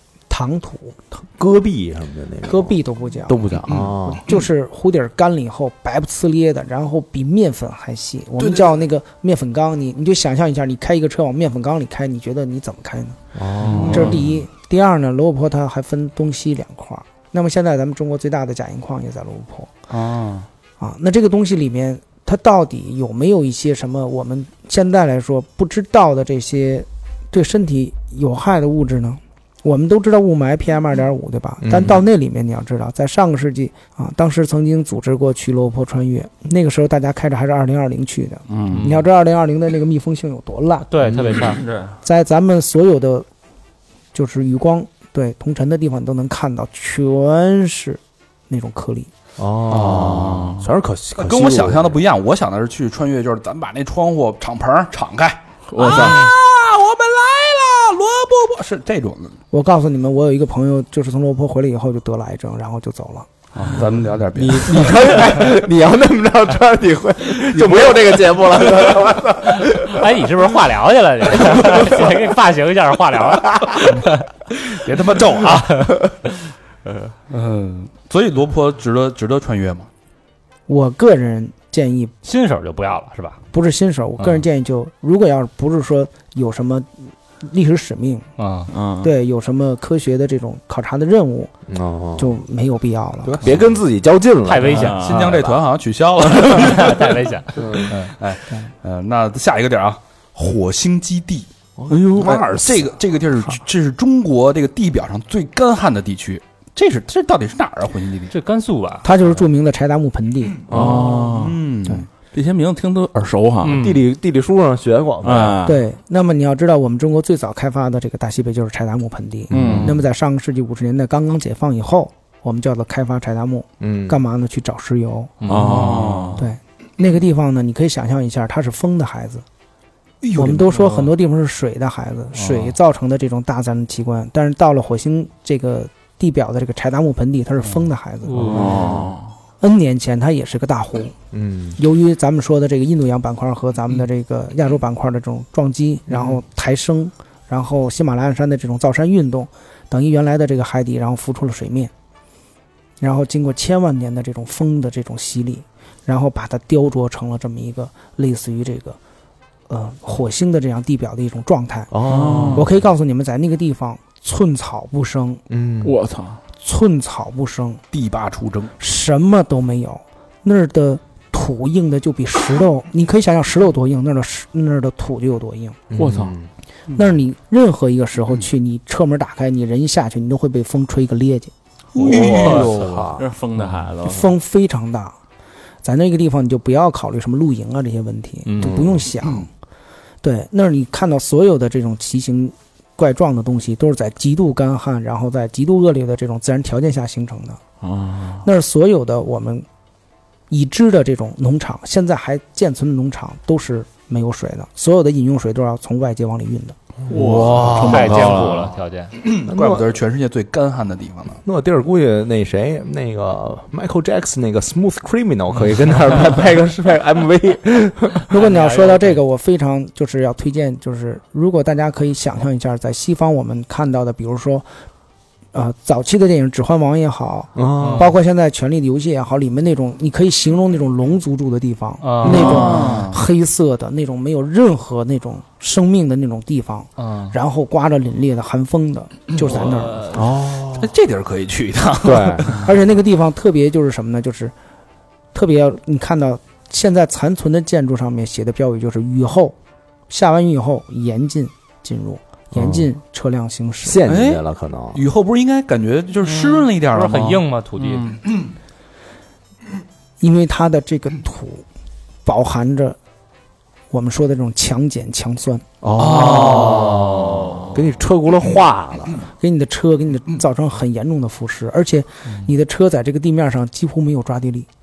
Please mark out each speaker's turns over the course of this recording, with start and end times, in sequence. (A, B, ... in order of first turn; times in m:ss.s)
0:00.3-0:01.0 A
0:01.2-0:04.3 B
0:02.4-0:13.2 A
0:13.3-0:14.3 B
0:13.6-0:14.2 C
0:13.6-0:14.2 D
0:13.9-0:19.7 A
0:19.9-0:20.5 D
0:20.8-0:40.9 A
0:31.6-0:32.0 B
0:38.5-0:38.8 D
0:38.6-0:38.9 C
0:40.9-0:41.6 E
0:41.1-0:41.9 C
0:42.0-0:43.2 A
0:44.1-0:49.1 A
0:49.4-0:52.0 B
0:49.7-0:50.6 C
0:49.7-0:50.4 D
0:51.2-0:59.4 D
0:55.7-0:56.2 C
0:59.5-1:03.3 A
1:03.5-1:05.2 D
1:04.3-1:10.1 B
1:07.6-1:08.0 C
1:09.8-1:14.2 E
1:11.4-1:12.0 B
1:14.6-1:16.0 D
1:17.3-1:19.9 D
1:20.7-1:22.1 A
1:22.2-1:23.4 E
1:23.5-1:28.3 A
1:28.4-1:28.7 E
1:28.7-1:29.1 C
1:29.0-1:31.5 A
1:31.7-1:32.3 B
1:32.2-1:33.4 A
1:33.2-1:33.6 D
1:33.4-1:34.9 B
1:34.4-1:35.4 E
1:34.7-1:35.6 C
1:34.8-1:41.5 D
1:36.4-1:38.1 E
1:41.8-1:42.9 B
1:41.9-1:42.4 C
1:42.2-1:48.3 D
1:48.3-1:49.1 E
1:49.0-1:50.7 A
1:50.7-1:51.4 B
1:50.7-1:51.6 C
1:50.7-1:52.1 D
1:52.3-1:53.9 C
1:53.6-1:54.0 E
1:53.8-1:55.6 B
1:55.2-1:55.8 C
1:55.6-2:05.4 A
1:59.5-1:59.9 B
1:59.5-2:00.0 C
2:03.8-2:04.2 B
2:05.4-2:06.4 C
2:05.5-2:06.0 E
2:05.5-2:06.4 D
2:06.4-2:09.4 A
2:10.2-2:10.9 D
2:10.3-2:18.8 A
2:18.2-2:19.0 E
2:18.4-2:19.3 C
2:18.6-2:19.1 B
2:19.6-2:21.1 A
2:21.3-2:21.8 B
2:21.8-2:31.9 A
2:33.0-2:39.0 A
2:39.7-2:45.4 A
2:41.9-2:42.7 B
2:42.0-2:42.7 C
2:45.5-2:46.0 B
2:45.8-2:46.4 C
2:46.6-2:47.8 A
2:47.9-2:48.7 D
2:48.8-2:55.8 A
2:55.9-2:56.5 B
2:56.0-2:56.3 C
2:56.9-3:01.5 A
3:01.9-3:03.0 D
3:02.0-3:03.2 B
3:02.0-3:04.3 C
3:04.0-3:05.2 A
3:05.8-3:09.5 A
3:10.2-3:17.6 A
3:17.8-3:18.4 C
3:18.4-3:19.6 A
3:20.5-3:26.8 A
3:27.1-3:28.1 B
3:27.1-3:28.7 C
3:27.4-3:28.6 D
3:27.8-3:29.1 E
3:29.2-3:31.4 D
3:29.4-3:29.9 B
3:31.4-3:38.3 B
3:38.3-3:44.7 A
3:38.4-3:39.2 E
3:45.5-4:00.1 A
3:47.5-3:48.1 B
3:47.8-3:48.1 E
3:52.0-3:52.9 E
3:52.2-3:53.2 D
3:52.4-3:53.0 C
3:57.0-3:57.3 E
3:59.4-4:00.3 E
4:00.1-4:00.9 B
4:00.7-4:02.7 D
4:02.0-4:02.6 B
4:02.5-4:04.5 A
4:05.3-4:09.5 A
4:10.1-4:14.0 A
4:12.5-4:12.9 B
4:13.8-4:15.0 B
4:14.0-4:17.4 D
4:16.3-4:18.2 E
4:20.2-4:21.6 A
4:22.2-4:23.0 A
4:23.9-4:25.6 A
4:25.8-4:29.2 B
4:26.0-4:27.0 D
4:26.0-4:27.8 C
4:29.4-4:34.7 A